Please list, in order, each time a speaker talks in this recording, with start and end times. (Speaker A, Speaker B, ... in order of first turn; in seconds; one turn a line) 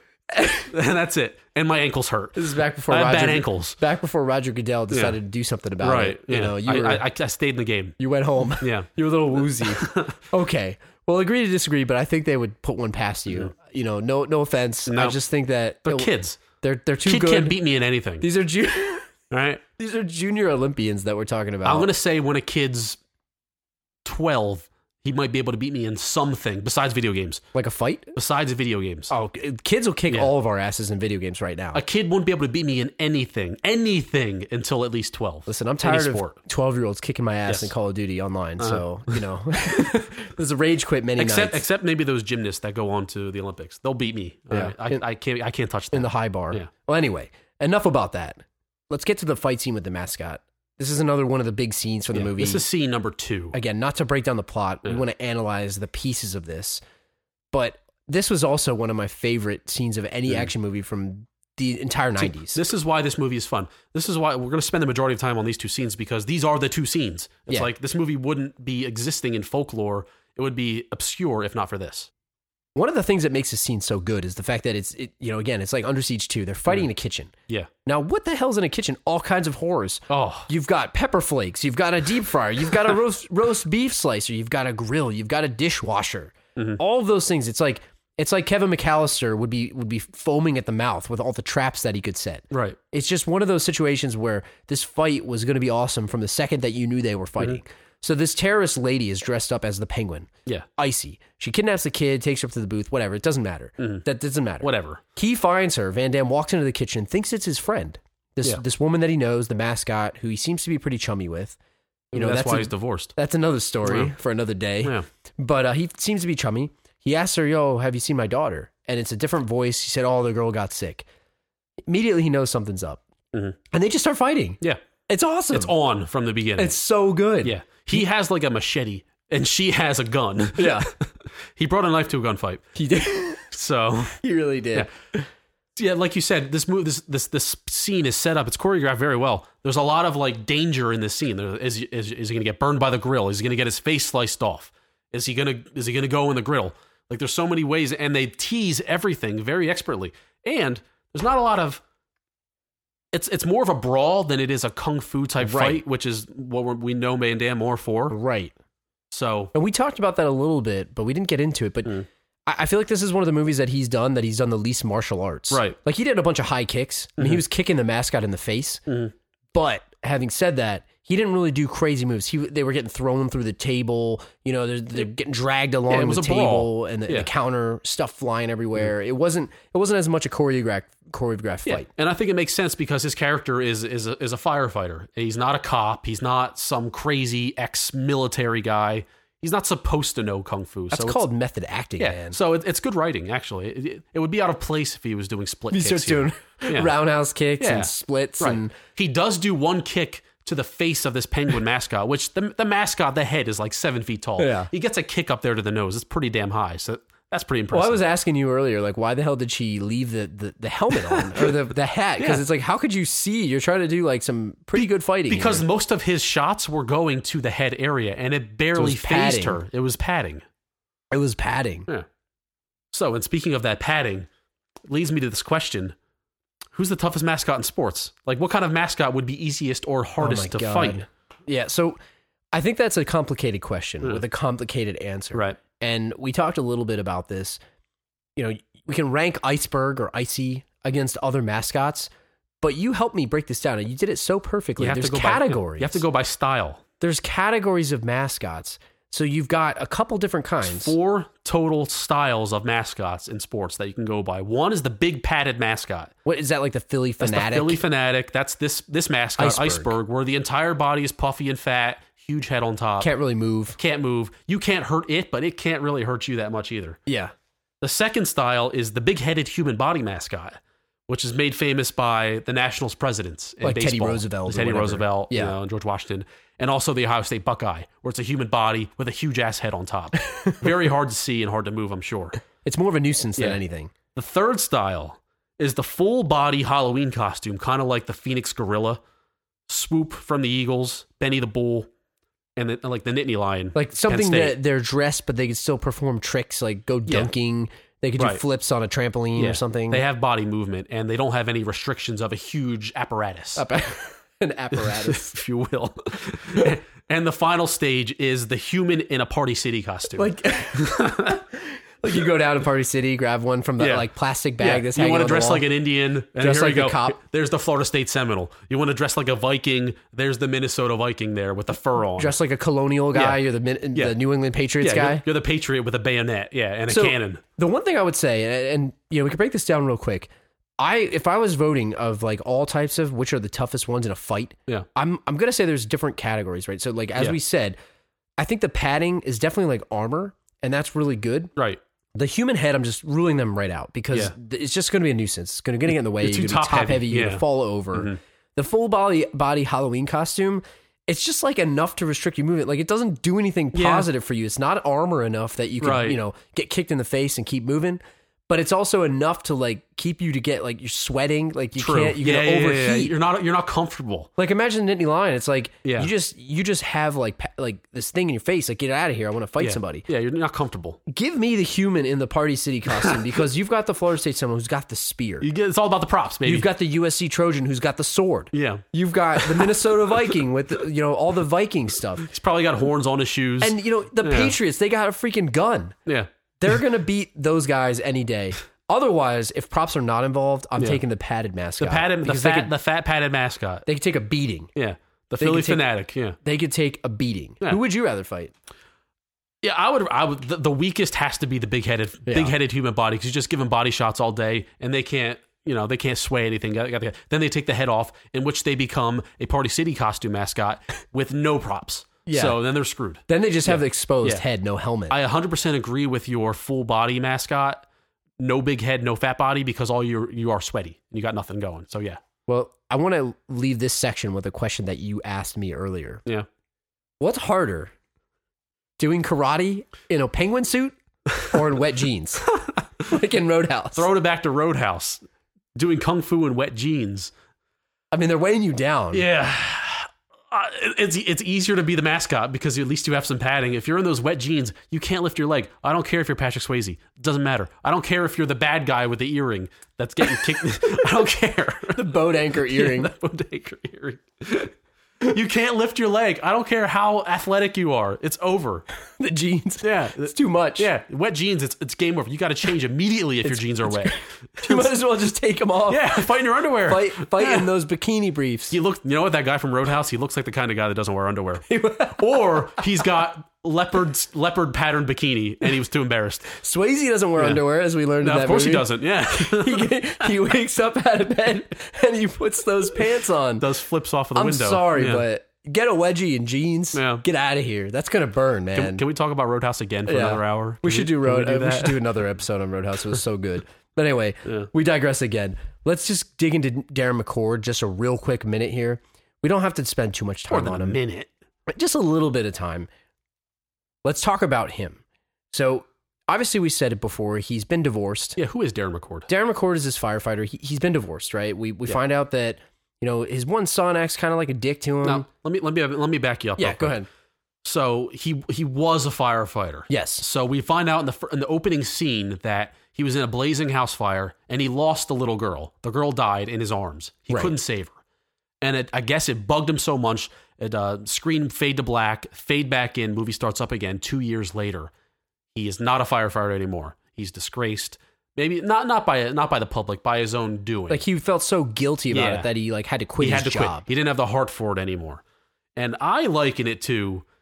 Speaker A: 0.4-0.6
Speaker B: 0.7-2.4
Speaker A: 2.4-7.0
Speaker B: 2.9-3.8
Speaker B: 4.9-5.2
Speaker B: 5.8-8.0
Speaker A: 8.0-17.6
Speaker B: 8.6-8.9
Speaker B: 9.6-10.1
Speaker B: 14.9-15.2
Speaker B: 15.8-16.4
Speaker B: 17.1-18.3
Speaker A: 18.2-19.1
Speaker B: 19.3-19.6
Speaker A: 19.8-21.9
Speaker B: 21.6-23.0
Speaker B: 24.1-27.4
Speaker A: 27.5-28.2
Speaker B: 28.2-29.1
Speaker A: 29.1-31.8
Speaker B: 31.7-36.4
Speaker A: 35.5-41.6
Speaker B: 37.5-37.7
Speaker B: 38.6-39.2
Speaker B: 41.2-46.7
Speaker A: 44.5-45.0
Speaker A: 45.9-52.6
Speaker B: 52.1-53.6
Speaker A: 53.5-56.8
Speaker A: 57.5-62.6
Speaker B: 62.2-72.1
Speaker A: 72.8-77.3
Speaker A: 77.8-111.6
Speaker B: 80.1-80.5
Speaker B: 92.5-92.8
Speaker B: 103.8-104.0
Speaker B: 104.6-105.0
Speaker B: 112.1-113.1
Speaker A: 112.1-121.1
Speaker B: 113.9-114.1
Speaker A: 121.9-123.0
Speaker A: 123.7-125.7
Speaker B: 125.5-126.7
Speaker A: 126.6-128.0
Speaker B: 127.4-132.7
Speaker A: 130.6-130.9
Speaker A: 132.8-133.5
Speaker B: 133.5-134.2
Speaker A: 134.2-135.3
Speaker B: 135.8-151.8
Speaker B: 153.1-158.2
Speaker A: 155.4-155.8
Speaker A: 158.1-158.5
Speaker B: 159.1-159.5
Speaker A: 159.5-168.8
Speaker B: 165.5-165.8
Speaker B: 168.9-169.1
Speaker A: 169.5-181.9
Speaker B: 175.9-177.3
Speaker B: 181.7-191.2
Speaker A: 190.9-192.4
Speaker B: 192.0-196.9
Speaker A: 195.7-198.8
Speaker B: 197.6-208.0
Speaker A: 204.4-204.7
Speaker A: 207.7-215.7
Speaker B: 211.1-211.5
Speaker B: 214.8-220.4
Speaker A: 218.8-219.6
Speaker A: 221.1-221.9
Speaker B: 222.9-224.3
Speaker B: 224.9-225.9
Speaker B: 226.7-231.0
Speaker A: 230.2-232.0
Speaker A: 232.5-237.6
Speaker A: 238.4-242.1
Speaker A: 242.6-246.0
Speaker B: 244.8-246.8
Speaker A: 247.0-250.9
Speaker B: 250.7-256.1
Speaker A: 256.2-257.8
Speaker B: 257.2-263.1
Speaker A: 259.4-259.9
Speaker A: 263.0-263.8
Speaker B: 263.8-267.0
Speaker A: 267.1-267.3
Speaker B: 267.8-282.4
Speaker A: 273.6-275.6
Speaker A: 282.6-283.9
Speaker B: 284.1-289.0
Speaker B: 289.7-291.9
Speaker B: 292.6-294.6
Speaker A: 293.8-300.0
Speaker B: 299.4-303.7
Speaker A: 303.6-305.3
Speaker B: 304.7-311.4
Speaker A: 310.2-315.7
Speaker B: 313.8-314.1
Speaker B: 314.6-322.4
Speaker A: 316.4-317.2
Speaker A: 322.2-325.2
Speaker B: 323.1-323.4
Speaker B: 324.8-327.4
Speaker A: 326.9-337.8
Speaker A: 338.4-341.5
Speaker A: 342.1-363.1
Speaker B: 345.9-347.4
Speaker B: 353.7-354.1
Speaker B: 355.8-356.2
Speaker B: 361.8-364.3
Speaker A: 364.4-370.1
Speaker B: 365.8-366.1
Speaker B: 369.6-371.0
Speaker A: 371.1-375.5
Speaker B: 375.4-376.7
Speaker A: 376.4-382.3
Speaker B: 378.5-378.9
Speaker B: 379.4-379.8
Speaker B: 382.2-384.6
Speaker A: 383.6-386.0
Speaker A: 386.6-392.7
Speaker B: 391.8-393.9
Speaker A: 393.9-394.7
Speaker B: 394.8-396.4
Speaker A: 395.4-395.9
Speaker A: 396.4-398.5
Speaker B: 399.6-414.4
Speaker A: 402.3-402.5
Speaker A: 412.3-412.6
Speaker A: 413.3-415.2
Speaker B: 415.1-417.9
Speaker B: 418.4-422.2
Speaker A: 422.5-426.2
Speaker A: 427.2-427.9
Speaker A: 429.0-434.1
Speaker B: 433.9-435.2
Speaker B: 435.8-437.3
Speaker A: 438.1-439.2
Speaker B: 439.1-458.9
Speaker A: 452.0-453.1
Speaker A: 459.2-460.9
Speaker B: 459.8-464.9
Speaker A: 463.4-466.3
Speaker B: 465.9-467.7
Speaker A: 466.8-468.8
Speaker B: 468.7-476.5
Speaker A: 471.7-472.6
Speaker A: 476.5-483.7
Speaker B: 478.2-480.3
Speaker B: 483.6-485.2
Speaker A: 484.4-489.0
Speaker B: 486.9-487.2
Speaker B: 488.7-492.0
Speaker A: 490.1-501.0
Speaker B: 500.5-501.3
Speaker A: 501.7-502.9
Speaker A: 504.0-508.4
Speaker B: 508.4-509.3
Speaker A: 509.3-515.3
Speaker B: 515.0-517.0
Speaker A: 516.6-517.1
Speaker B: 517.6-528.0
Speaker A: 519.9-520.2
Speaker A: 527.3-527.5
Speaker B: 528.6-534.9
Speaker B: 535.5-541.0
Speaker A: 540.9-543.9
Speaker B: 542.1-542.5
Speaker B: 543.2-545.2
Speaker B: 545.8-547.2